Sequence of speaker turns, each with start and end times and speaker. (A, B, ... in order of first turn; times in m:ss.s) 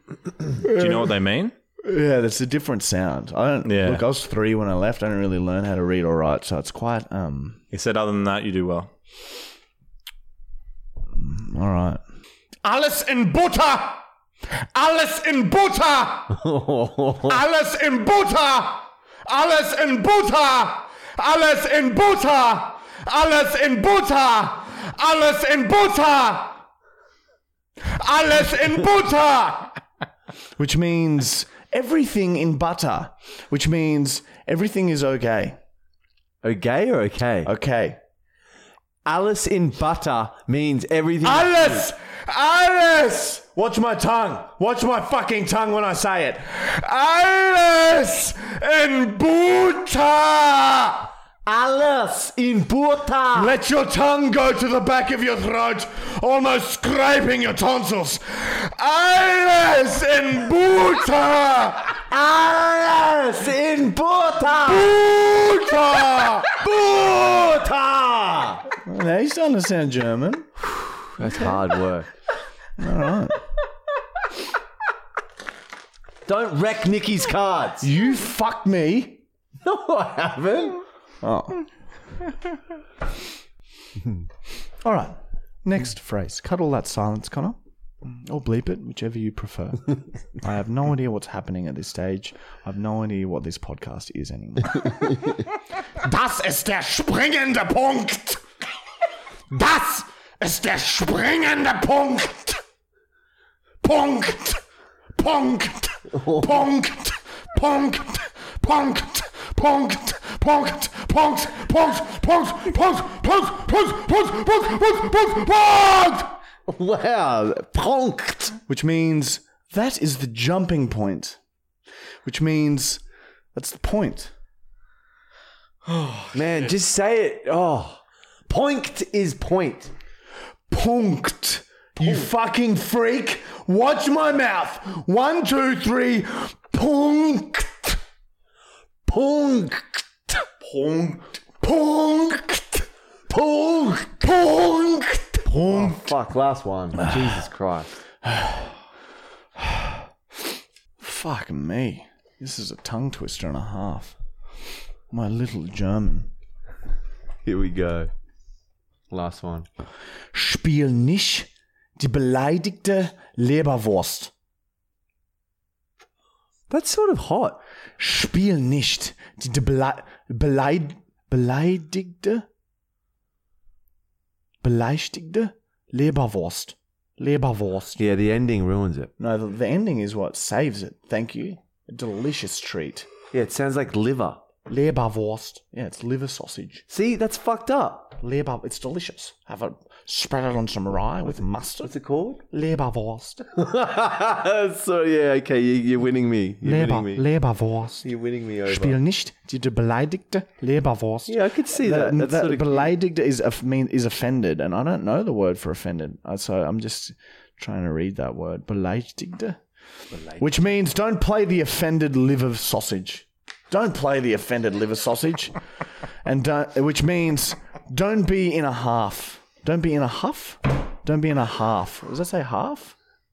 0:00.5-0:01.5 A
0:00.6-0:01.1 B
0:01.8-0:07.6 B
0:03.6-0:04.1 A
0:07.7-0:08.9 A
0:11.2-0:12.0 B
0:12.6-0:14.0 B
0:14.7-0:16.5 B
0:16.3-0:17.4 C
0:17.3-0:26.6 B
0:27.8-0:29.8 B
0:30.6-0:35.6 B
0:36.4-0:37.5 C
0:37.4-0:38.0 B
0:39.0-0:41.8 C
0:41.2-0:51.1 B
0:51.4-0:53.5 C
0:53.4-1:02.0 B
1:02.1-1:05.0 C
1:04.5-1:06.6 B
1:06.2-1:08.7 C
1:08.8-1:10.5 B
1:11.0-1:12.1 C
1:12.8-1:13.4 B
1:16.3-1:17.9 C
1:17.8-1:19.2 B
1:19.6-1:20.8 C
1:21.2-1:21.6 B
1:24.8-1:38.4 B
1:39.5-1:42.6 B
1:43.8-1:44.6 B
1:45.2-1:56.4 B
1:46.2-1:46.5 C
1:56.7-1:58.6 C
1:58.7-2:01.4 B
2:02.2-2:03.0 B
2:03.5-2:04.3 B
2:05.9-2:06.2 A
2:06.3-2:09.9 C
2:10.7-2:18.0 B
2:19.1-2:26.1 B
2:25.6-2:28.0 C
2:28.2-2:28.8 B
2:29.6-2:30.0 B
2:31.0-2:34.2 B
2:35.1-2:36.3 B
2:37.4-2:38.1 C
2:39.1-2:39.7 C
2:40.3-2:44.3 B
2:46.7-2:47.6 C
2:48.0-2:52.5 B
2:54.6-2:58.0 B
2:58.0-2:59.1 C
2:59.2-3:03.1 B
3:03.3-3:04.4 C
3:04.7-3:06.8 B
3:06.9-3:08.2 C
3:08.2-3:11.9 B
3:11.8-3:12.4 C
3:12.5-3:13.5 B
3:13.6-3:17.3 C
3:16.6-3:18.0 B
3:18.0-3:19.0 C
3:18.7-3:29.6 B
3:21.3-3:22.9 C
3:30.4-3:35.6 B
3:36.2-3:43.0 B